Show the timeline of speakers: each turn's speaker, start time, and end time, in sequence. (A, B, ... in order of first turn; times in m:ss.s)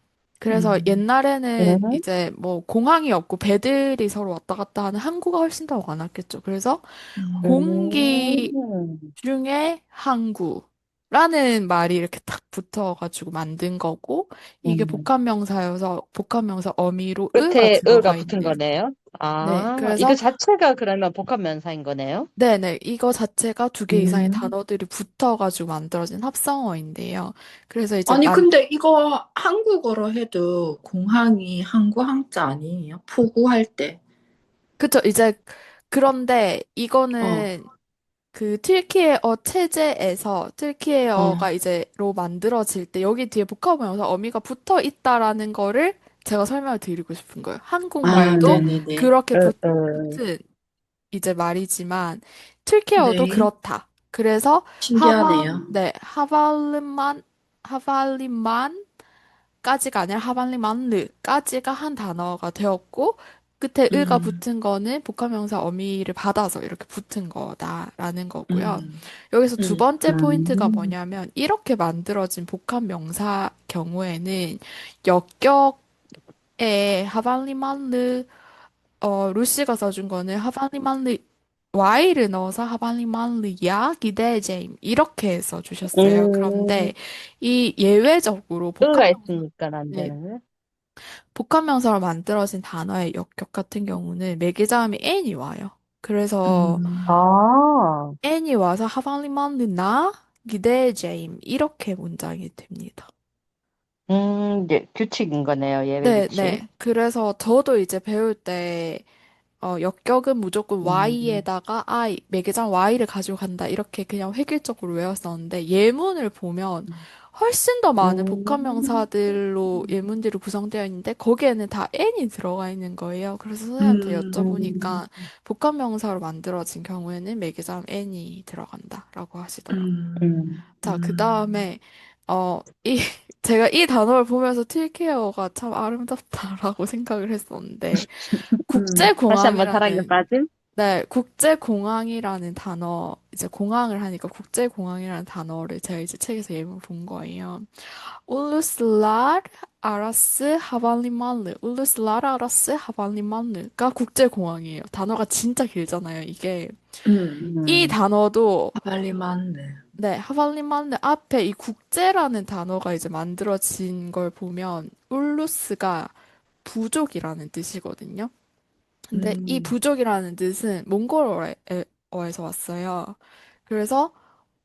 0:00.4-0:08.5 A
0:00.5-0:01.0 B
0:01.6-0:02.0 C
0:07.2-0:07.6 B
0:07.4-0:09.1 C
0:09.2-0:18.6 A
0:14.6-0:15.0 C
0:17.3-0:22.3 C
0:19.4-0:20.2 A
0:22.4-0:28.5 A
0:23.9-0:24.5 C
0:28.1-0:34.0 B
0:34.8-0:37.7 A
0:37.2-0:37.5 B
0:38.3-0:50.4 A
0:41.2-0:41.5 B
0:48.0-0:49.1 B
0:48.1-0:48.7 C
0:49.3-0:50.2 C
0:51.1-0:58.8 A
0:53.0-0:53.5 B
0:54.8-0:55.7 B
0:59.6-1:15.8 A
1:03.9-1:04.4 B
1:08.5-1:09.0 B
1:09.6-1:09.9 B
1:10.1-1:10.5 C
1:10.5-1:10.9 B
1:16.6-1:18.3 A
1:19.0-1:29.4 A
1:25.9-1:26.9 C
1:28.8-1:30.4 C
1:29.9-1:30.1 A
1:31.3-1:36.8 A
1:36.4-1:37.1 B
1:37.1-1:38.1 C
1:38.2-1:43.1 A
1:44.1-1:46.6 C
1:46.0-1:49.0 A
1:49.6-2:09.9 A
1:50.8-1:51.4 C
1:58.0-1:58.6 C
2:03.8-2:05.0 B
2:04.4-2:04.9 C
2:09.7-2:11.6 B
2:10.2-2:10.6 C
2:10.8-2:20.2 A
2:18.0-2:20.5 C
2:18.7-2:19.1 B
2:20.8-2:37.0 A
2:37.0-2:37.5 B
2:37.4-2:38.0 C
2:37.6-2:38.8 A
2:38.8-2:39.8 B
2:40.0-2:48.3 A
2:49.1-2:54.1 A
2:49.1-2:49.7 B